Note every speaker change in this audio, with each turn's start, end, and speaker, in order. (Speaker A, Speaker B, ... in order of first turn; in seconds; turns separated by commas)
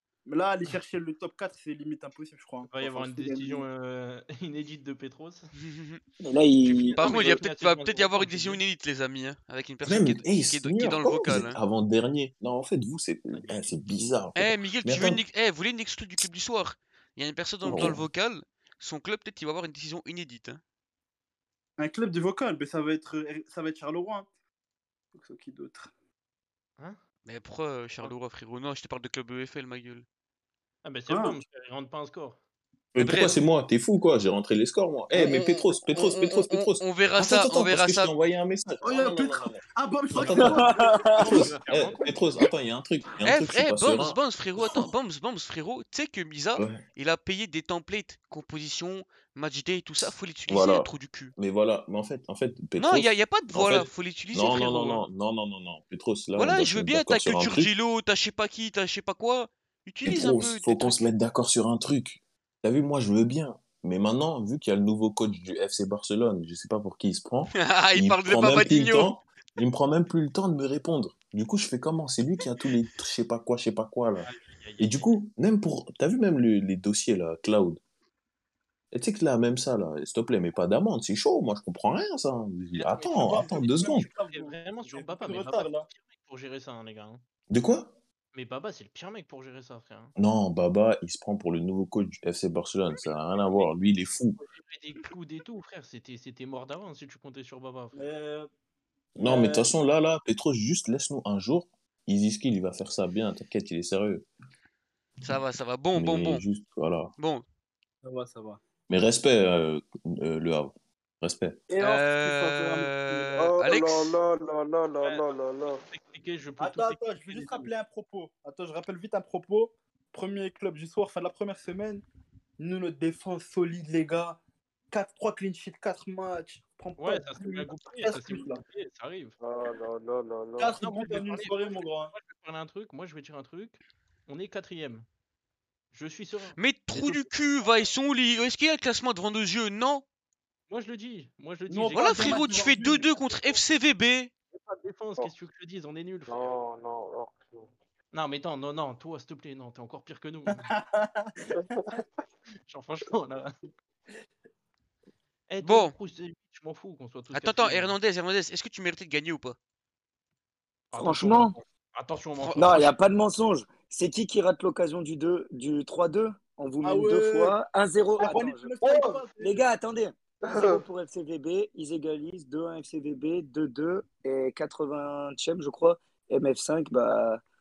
Speaker A: 0.2-3.6, Speaker B: 2.7-5.5, Speaker C: 5.5-6.0, Speaker D: 6.2-7.0, Speaker B: 6.6-8.6, Speaker C: 7.0-11.6, Speaker E: 9.8-15.2, Speaker B: 13.3-13.6, Speaker C: 14.3-20.6, Speaker E: 17.6-18.0, Speaker A: 21.8-24.3, Speaker A: 25.1-25.9, Speaker C: 27.2-30.1, Speaker B: 30.8-32.4, Speaker A: 31.1-31.4, Speaker E: 32.9-40.6, Speaker C: 33.0-33.4, Speaker C: 35.2-38.1, Speaker A: 38.8-41.5, Speaker D: 40.3-41.4, Speaker B: 41.2-42.1, Speaker E: 41.2-44.9, Speaker C: 43.2-51.3, Speaker E: 46.5-46.8, Speaker E: 50.5-57.7, Speaker C: 52.8-55.0, Speaker C: 56.4-61.1, Speaker E: 60.0-77.8, Speaker C: 67.5-69.1, Speaker B: 74.2-75.1, Speaker E: 78.9-84.1, Speaker B: 82.7-83.4, Speaker A: 83.1-85.8, Speaker B: 84.0-87.2, Speaker E: 87.5-87.9, Speaker B: 88.3-90.1, Speaker E: 90.2-94.4, Speaker B: 92.9-93.7, Speaker B: 94.4-98.0, Speaker A: 97.9-98.5, Speaker A: 99.2-99.7, Speaker E: 99.2-104.2, Speaker C: 105.2-106.4, Speaker E: 105.9-107.1, Speaker C: 107.2-107.4, Speaker A: 108.0-108.6, Speaker E: 108.9-111.6, Speaker A: 111.7-113.3, Speaker C: 111.8-114.2, Speaker F: 113.4-115.8, Speaker B: 115.0-117.7, Speaker A: 116.6-122.0, Speaker A: 122.6-124.4, Speaker A: 124.9-128.6, Speaker B: 127.0-129.3, Speaker F: 129.4-130.8, Speaker A: 130.6-132.1, Speaker B: 130.8-135.1, Speaker B: 135.9-137.2, Speaker C: 136.6-140.0, Speaker B: 140.7-142.5, Speaker A: 141.7-143.1, Speaker C: 141.9-144.3, Speaker B: 144.5-146.5, Speaker F: 146.3-147.7, Speaker B: 148.1-150.7, Speaker A: 150.5-151.6, Speaker B: 152.7-153.5, Speaker B: 155.5-158.0, Speaker C: 155.6-155.9, Speaker C: 157.3-159.6, Speaker B: 160.9-162.9, Speaker D: 160.9-161.6, Speaker C: 162.4-162.8, Speaker D: 162.6-168.8, Speaker A: 166.8-167.6, Speaker A: 168.2-169.6, Speaker F: 168.2-169.2, Speaker D: 169.3-177.4, Speaker F: 170.4-170.8